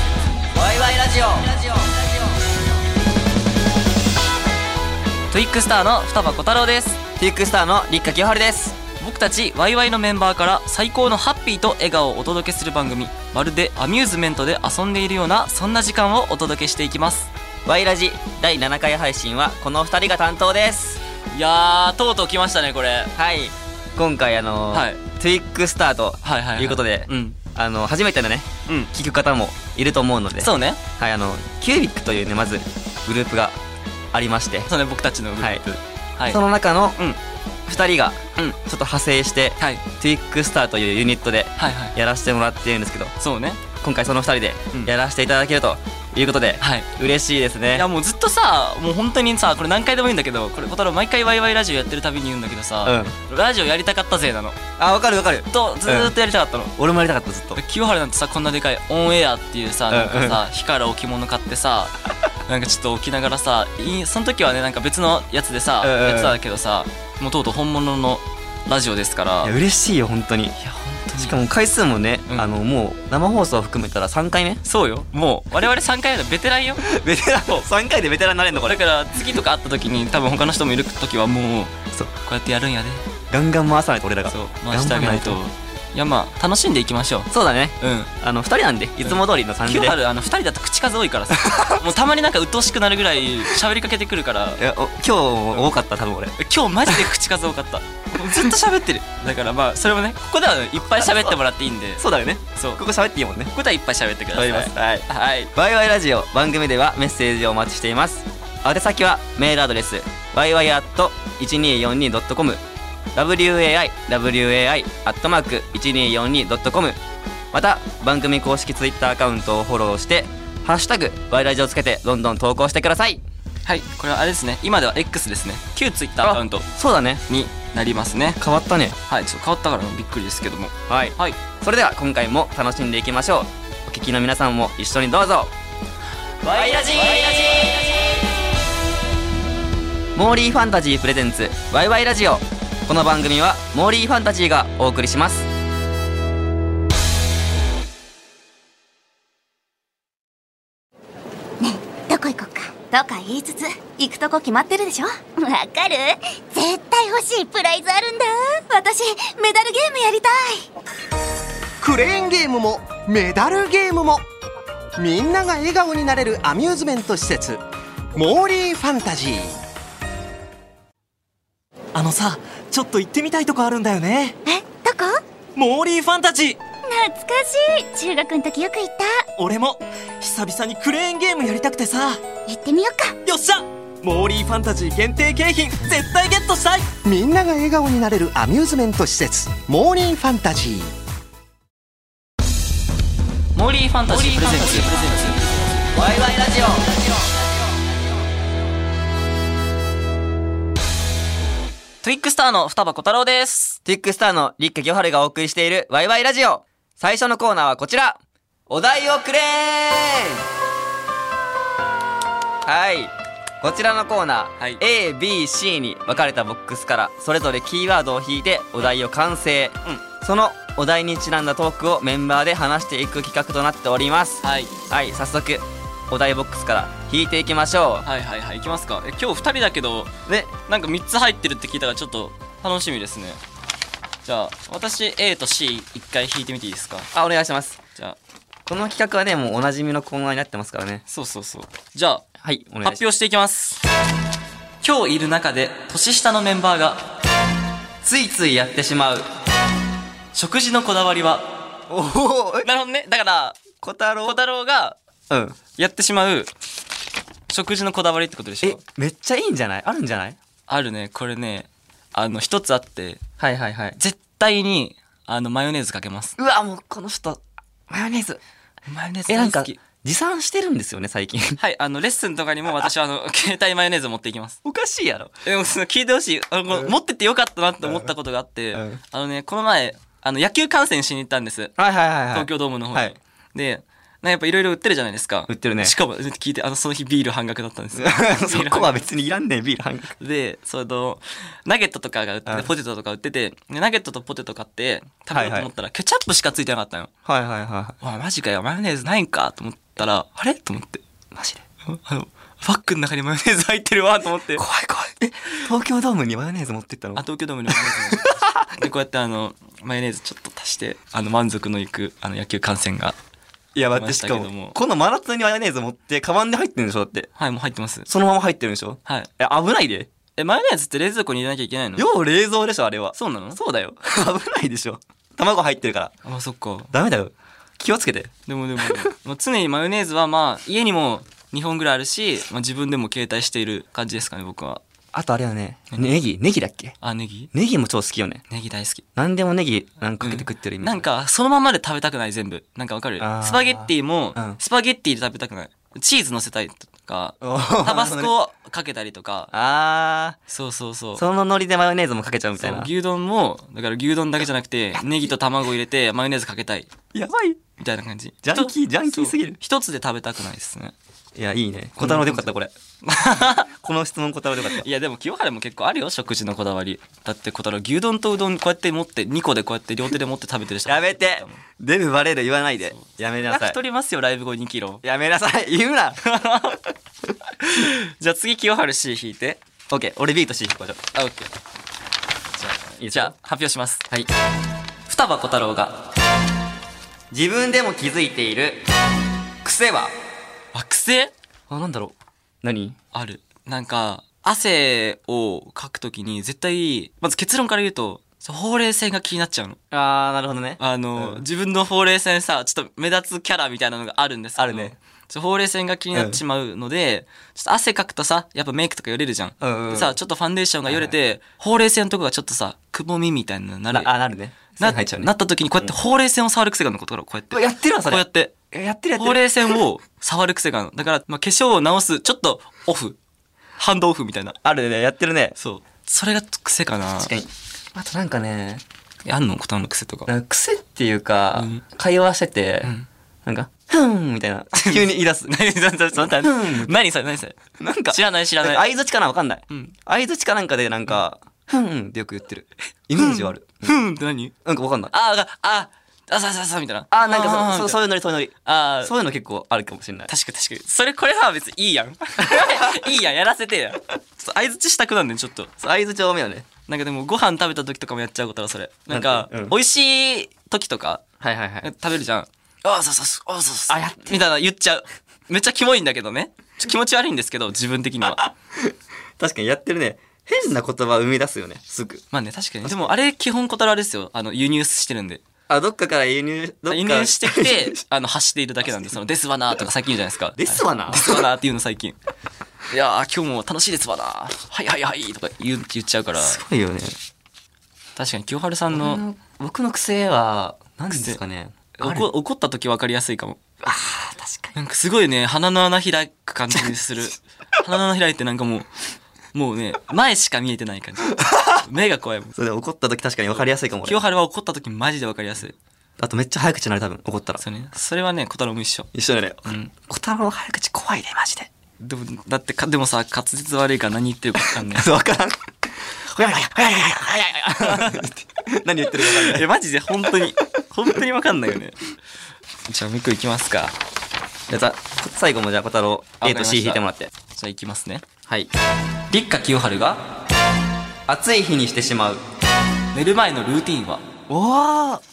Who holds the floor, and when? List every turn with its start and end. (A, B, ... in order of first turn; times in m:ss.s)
0:00.6-0:01.9 A
0:05.3-0:07.0 B
0:07.2-0:08.8 A
0:09.0-0:17.3 B
0:17.6-0:21.0 A
0:21.3-0:23.1 B
0:23.2-0:33.6 A
0:24.7-0:25.0 B
0:26.2-0:27.4 B
0:28.7-0:28.9 B
0:30.4-0:30.8 B
0:34.1-0:34.7 A
0:34.7-0:36.4 B
0:35.4-0:35.6 A
0:36.3-0:37.0 A
0:37.7-0:43.1 A
0:41.6-0:42.0 B
0:43.2-0:43.6 B
0:43.8-0:47.9 A
0:46.6-0:46.9 B
0:47.7-0:54.6 B
0:52.8-0:53.2 A
0:54.8-0:56.1 A
0:55.5-0:56.7 B
0:56.8-0:57.6 A
0:57.6-1:09.6 B
0:59.9-1:00.4 A
1:05.8-1:06.4 A
1:09.4-1:10.6 A
1:10.6-1:11.4 B
1:11.2-1:14.6 A
1:14.6-1:16.8 B
1:16.8-1:18.8 A
1:18.6-1:23.0 B
1:23.3-1:25.4 A
1:24.3-1:27.3 B
1:27.3-1:30.0 A
1:27.8-1:28.1 B
1:29.0-1:34.6 B
1:31.3-1:31.9 A
1:34.6-1:37.0 A
1:36.4-1:42.8 B
1:38.2-1:38.6 A
1:41.0-1:41.3 A
1:42.0-1:43.5 A
1:43.5-1:45.5 B
1:44.3-1:52.6 A
1:53.2-1:57.0 A
1:57.5-2:03.2 A
2:03.6-2:06.7 B
2:06.2-2:07.2 A
2:07.3-2:08.4 B
2:08.4-2:09.0 A
2:09.1-2:11.4 B
2:10.9-2:15.5 A
2:16.4-2:17.9 A
2:20.2-2:25.5 A
2:31.6-2:40.7 C
2:41.8-2:44.2 D
2:45.0-2:47.6 D
2:48.1-2:49.6 D
2:51.9-2:54.4 E
2:54.5-2:55.2 C
2:55.6-2:56.6 E
2:56.8-2:59.3 C
2:59.4-3:02.2 E
3:02.5-3:03.2 C
3:03.2-3:06.9 E
3:07.0-3:10.9 D
3:13.6-3:15.6 B
3:16.0-3:17.0 A
3:22.0-3:23.8 B
3:23.8-3:30.5 A
3:32.6-3:48.1 A
3:44.4-3:44.7 B
3:48.0-3:53.4 B
3:50.3-3:50.5 A
3:54.2-3:57.1 B
3:57.1-3:57.8 A
3:58.7-4:01.0 A
4:01.1-4:02.2 B
4:02.4-4:03.0 A
4:02.8-4:03.8 B
4:04.8-4:07.0 B
4:08.0-4:09.3 A
4:10.3-4:11.5 B
4:11.9-4:12.7 A
4:12.6-4:13.6 B
4:13.8-4:14.4 A
4:14.2-4:15.0 B
4:15.3-4:15.6 A
4:15.8-4:16.5 B
4:17.5-4:18.8 B
4:18.6-4:20.4 A
4:20.7-4:23.2 B
4:23.4-4:24.0 A
4:24.0-4:26.4 B
4:26.4-4:28.4 A
4:28.9-4:29.8 B
4:29.3-4:31.6 A
4:31.6-4:34.6 B
4:34.6-4:35.3 A
4:35.4-4:41.8 B
4:37.8-4:38.1 A
4:38.7-4:39.0 A
4:41.8-4:43.1 A
4:42.3-4:48.9 B
4:45.5-4:45.9 A
4:48.0-4:50.1 A
4:50.2-4:57.1 B
4:55.3-4:55.7 A
4:57.2-4:58.0 A
4:58.0-5:01.0 B
5:01.3-5:01.6 A
5:01.9-5:04.6 B
5:04.6-5:08.8 A
5:07.2-5:13.2 B
5:13.8-5:17.3 A
5:14.0-5:14.8 B
5:17.4-5:18.1 B
5:18.1-5:20.1 A
5:19.0-5:19.3 B
5:20.4-5:22.1 B
5:22.0-5:26.1 A
5:23.2-5:23.6 B
5:26.2-5:26.9 B
5:26.9-5:29.0 A
5:28.5-5:34.8 B
5:35.1-5:37.0 A
5:37.0-5:37.5 B
5:37.5-5:38.4 A
5:38.5-5:39.0 B
5:39.2-5:41.1 A
5:40.2-5:49.5 B
5:43.2-5:44.6 A
5:47.4-5:48.3 A
5:49.5-5:50.4 A
5:50.5-5:51.2 B
5:51.2-5:52.9 A
5:52.6-5:56.9 B
5:57.1-5:57.6 A
5:57.8-6:00.9 B
5:58.4-5:59.6 A
6:01.4-6:02.7 A
6:02.0-6:02.5 B
6:03.0-6:03.7 B
6:03.7-6:04.9 A
6:04.7-6:11.6 B
6:10.9-6:13.8 A
6:13.0-6:15.0 B
6:15.0-6:16.2 A
6:16.2-6:16.8 B
6:17.6-6:19.6 B
6:19.9-6:21.0 A
6:21.1-6:21.5 B
6:22.6-6:24.0 B
6:23.0-6:23.3 A
6:25.1-6:26.0 B
6:27.3-6:28.8 A
6:29.6-6:30.1 A
6:30.7-6:31.3 B
6:31.7-6:33.0 A
6:33.1-6:39.8 B
6:39.9-6:41.4 A
6:40.8-6:54.1 B
6:44.6-6:45.0 A
6:46.1-6:46.4 A
6:49.6-6:50.2 A
6:50.9-6:51.1 A
6:53.9-6:55.9 A
6:54.8-6:58.5 B
6:57.5-6:59.8 A
6:59.2-7:03.2 B
7:03.8-7:04.6 B
7:04.6-7:05.6 A
7:05.6-7:07.3 B
7:07.2-7:08.8 A
7:09.2-7:10.3 B
7:10.3-7:12.9 A
7:11.5-7:11.8 B
7:12.8-7:13.1 B
7:13.4-7:15.6 A
7:14.7-7:17.6 B
7:16.4-7:16.9 A
7:17.8-7:24.0 A
7:18.1-7:18.8 B
7:23.2-7:24.5 B
7:24.6-7:25.1 A
7:25.1-7:28.0 B
7:27.1-7:30.3 A
7:28.6-7:29.1 B
7:30.3-7:35.7 B
7:32.4-7:33.0 A
7:35.8-7:36.7 A
7:36.9-7:41.2 B
7:39.1-7:39.7 A
7:41.4-7:41.9 A
7:41.8-7:48.5 B
7:43.9-7:44.4 A
7:48.4-7:52.2 A
7:52.3-7:55.4 B
7:55.7-7:58.0 A
7:56.9-8:02.2 B
8:00.6-8:01.4 A
8:02.9-8:06.6 B
8:06.4-8:07.2 A
8:08.2-8:09.2 B
8:08.9-8:12.3 A
8:11.1-8:11.4 B
8:12.0-8:13.6 B
8:13.8-8:14.7 A
8:14.7-8:18.9 B
8:19.5-8:22.6 B
8:21.4-8:21.8 A
8:22.6-8:24.2 A
8:23.5-8:25.8 B
8:26.2-8:27.6 A
8:27.6-8:29.1 B
8:29.1-8:31.7 A
8:29.7-8:29.9 B
8:32.0-8:35.1 B
8:34.8-8:35.6 A
8:36.2-8:39.7 A
8:37.8-8:38.2 B
8:39.2-8:42.0 B
8:42.9-8:44.0 B
8:44.7-8:47.3 A
8:46.4-8:48.2 B
8:49.3-8:50.2 B
8:51.3-8:52.4 A
8:53.1-8:54.2 B
8:54.5-8:55.2 A